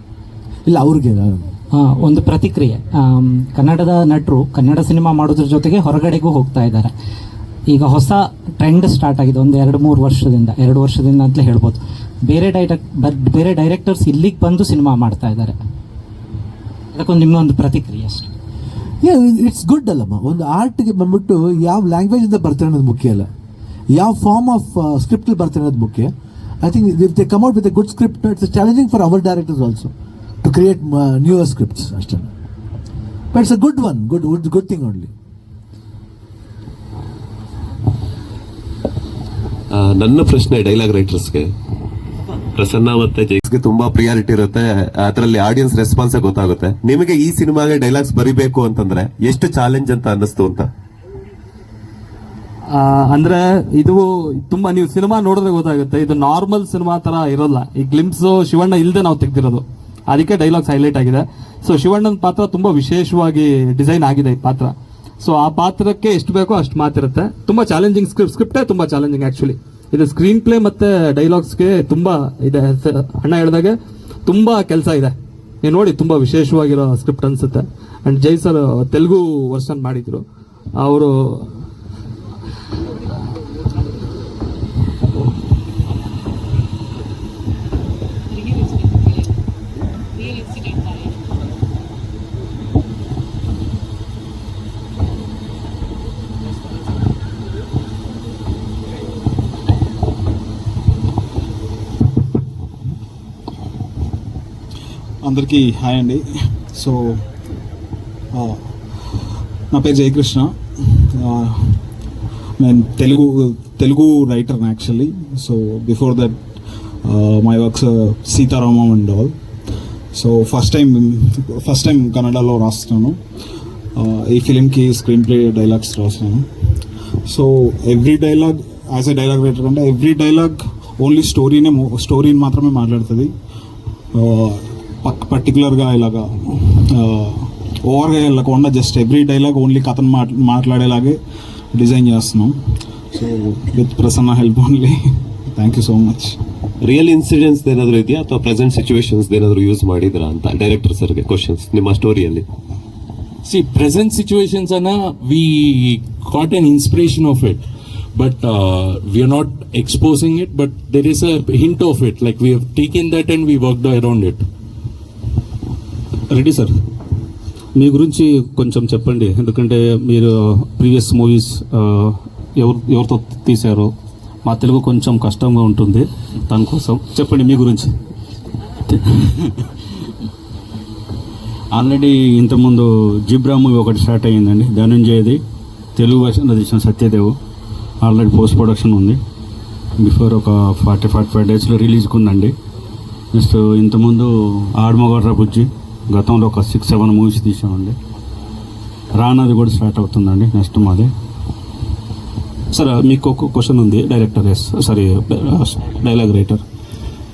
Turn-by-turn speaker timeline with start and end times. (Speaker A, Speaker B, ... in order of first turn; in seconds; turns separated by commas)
Speaker A: 0.7-1.5, Speaker B: 1.7-6.9, Speaker B: 7.7-15.6, Speaker B: 16.9-18.3, Speaker A: 19.0-23.3, Speaker A: 23.9-32.3, Speaker A: 33.3-35.1, Speaker C: 39.7-41.5, Speaker C: 42.5-50.7, Speaker D: 52.7-80.2, Speaker D: 80.8-81.5, Speaker E: 105.2-107.2, Speaker E: 108.3-108.7, Speaker E: 109.7-111.8, Speaker E: 112.6-116.5, Speaker E: 117.0-119.3, Speaker E: 120.1-123.2, Speaker E: 124.0-126.5, Speaker E: 127.3-133.3, Speaker E: 134.1-141.2, Speaker E: 141.7-142.6, Speaker E: 143.1-145.0, Speaker E: 145.5-146.4, Speaker C: 146.8-152.4, Speaker F: 153.4-157.6, Speaker F: 158.1-164.4, Speaker G: 166.3-166.7, Speaker G: 167.8-173.9, Speaker G: 174.4-177.9, Speaker H: 181.8-185.4, Speaker H: 185.9-187.3, Speaker H: 188.0-189.2, Speaker H: 190.0-192.5, Speaker H: 193.3-198.0, Speaker H: 199.1-201.1, Speaker G: 202.7-206.6